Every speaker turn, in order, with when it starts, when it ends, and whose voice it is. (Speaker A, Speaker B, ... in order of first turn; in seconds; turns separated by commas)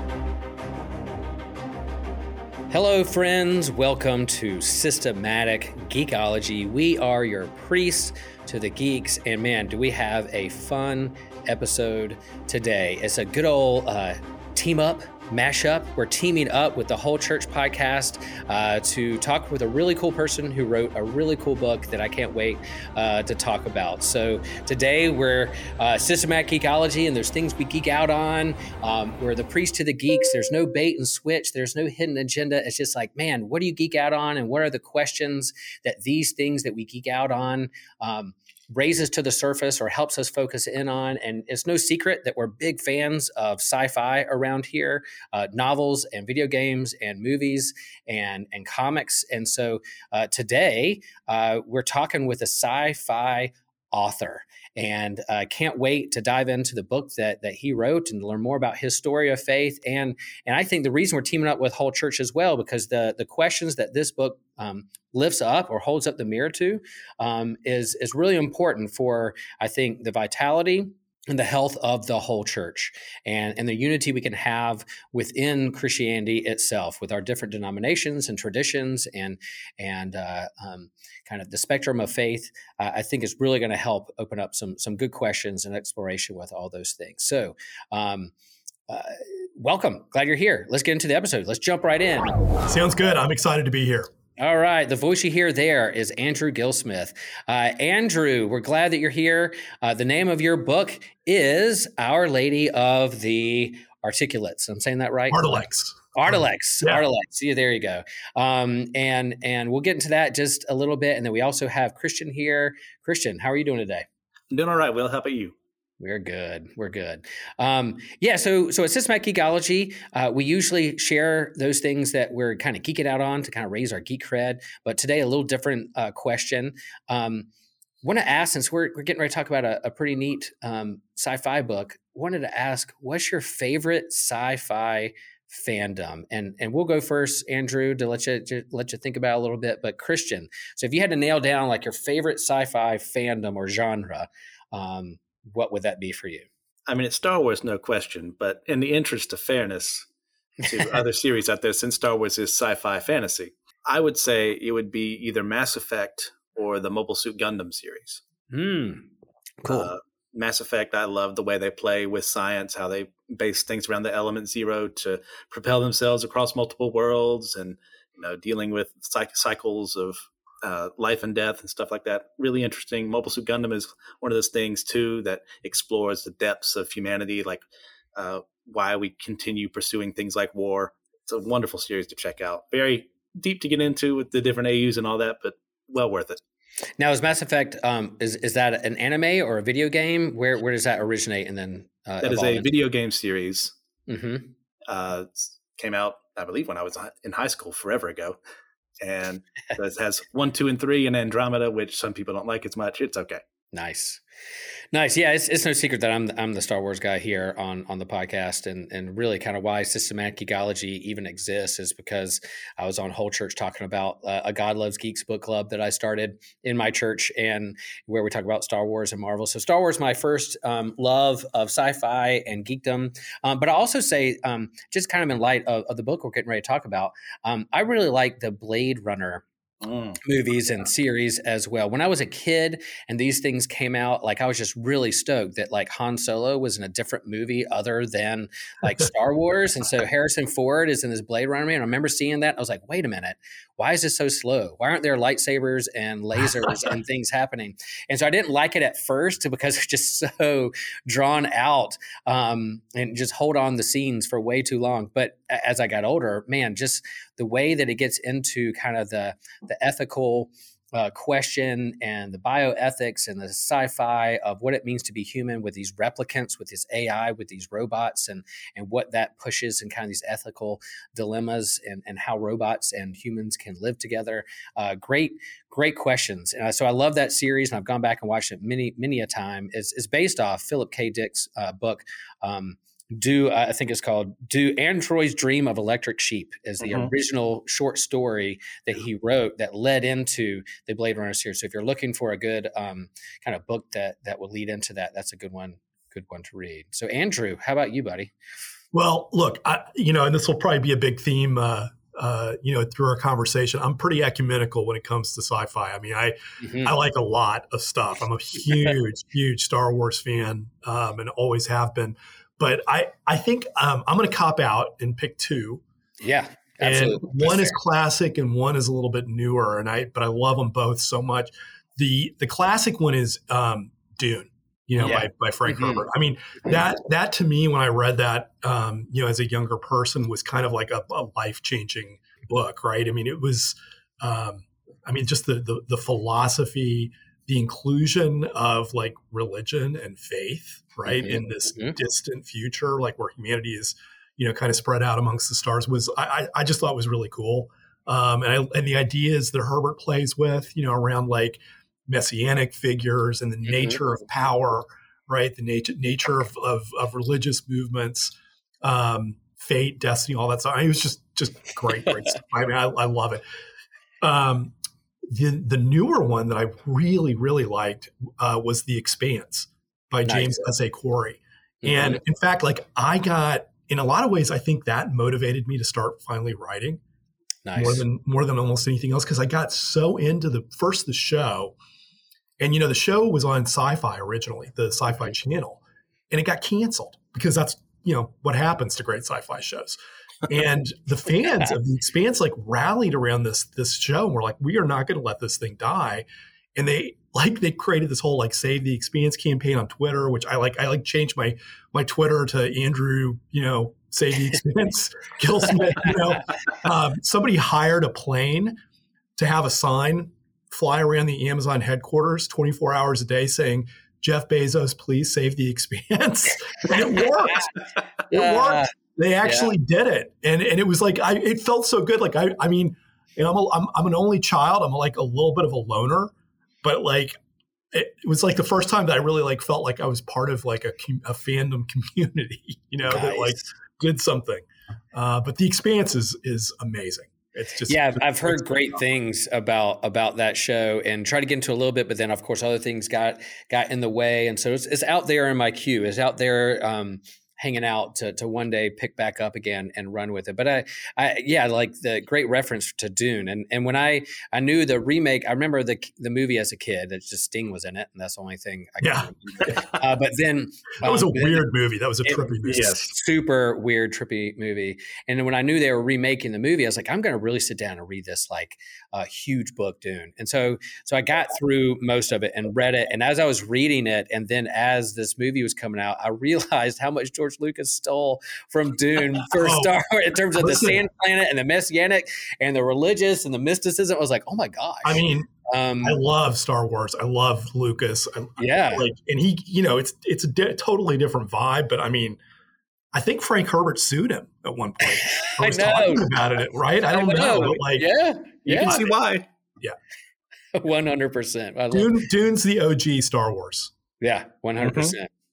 Speaker A: 2.7-88.3, Speaker A: 88.9-92.4, Speaker B: 92.6-94.1, Speaker A: 94.4-114.0, Speaker B: 105.3-107.0, Speaker C: 114.5-115.5, Speaker A: 116.0-127.5, Speaker A: 128.0-146.5, Speaker C: 146.9-150.1, Speaker C: 150.6-158.2, Speaker A: 158.5-159.1, Speaker A: 159.6-159.9, Speaker C: 159.6-177.6, Speaker C: 178.2-186.4, Speaker A: 187.0-192.7, Speaker C: 192.2-193.7, Speaker A: 194.1-194.5, Speaker C: 194.9-198.4, Speaker C: 199.0-203.4, Speaker A: 203.7-204.2, Speaker A: 204.9-229.4, Speaker C: 229.8-230.2, Speaker A: 230.2-298.3, Speaker C: 286.8-287.1, Speaker B: 298.9-315.8, Speaker A: 306.6-306.9, Speaker A: 316.2-317.7, Speaker B: 316.8-363.4, Speaker A: 325.0-326.1, Speaker A: 341.1-341.9, Speaker A: 353.7-354.0, Speaker B: 364.2-364.7, Speaker B: 365.3-377.0, Speaker A: 370.2-370.6, Speaker A: 371.8-372.2, Speaker A: 377.6-378.0, Speaker B: 377.7-381.7, Speaker B: 382.6-408.8, Speaker B: 409.4-417.7, Speaker A: 416.9-417.7, Speaker A: 418.3-418.9, Speaker B: 418.3-427.4, Speaker A: 419.4-419.7, Speaker B: 427.9-438.6, Speaker A: 433.1-433.6, Speaker A: 437.9-461.6, Speaker B: 459.0-459.7, Speaker B: 461.0-463.1, Speaker A: 462.2-486.2, Speaker B: 479.5-479.9, Speaker B: 480.6-481.0, Speaker B: 485.0-485.5, Speaker B: 486.0-492.4, Speaker A: 488.6-489.1, Speaker B: 493.1-498.1, Speaker A: 495.0-496.3, Speaker A: 497.1-499.0, Speaker B: 498.6-499.1, Speaker C: 498.7-499.4, Speaker A: 500.7-502.1, Speaker B: 501.9-503.9, Speaker A: 504.2-505.3, Speaker C: 504.9-505.1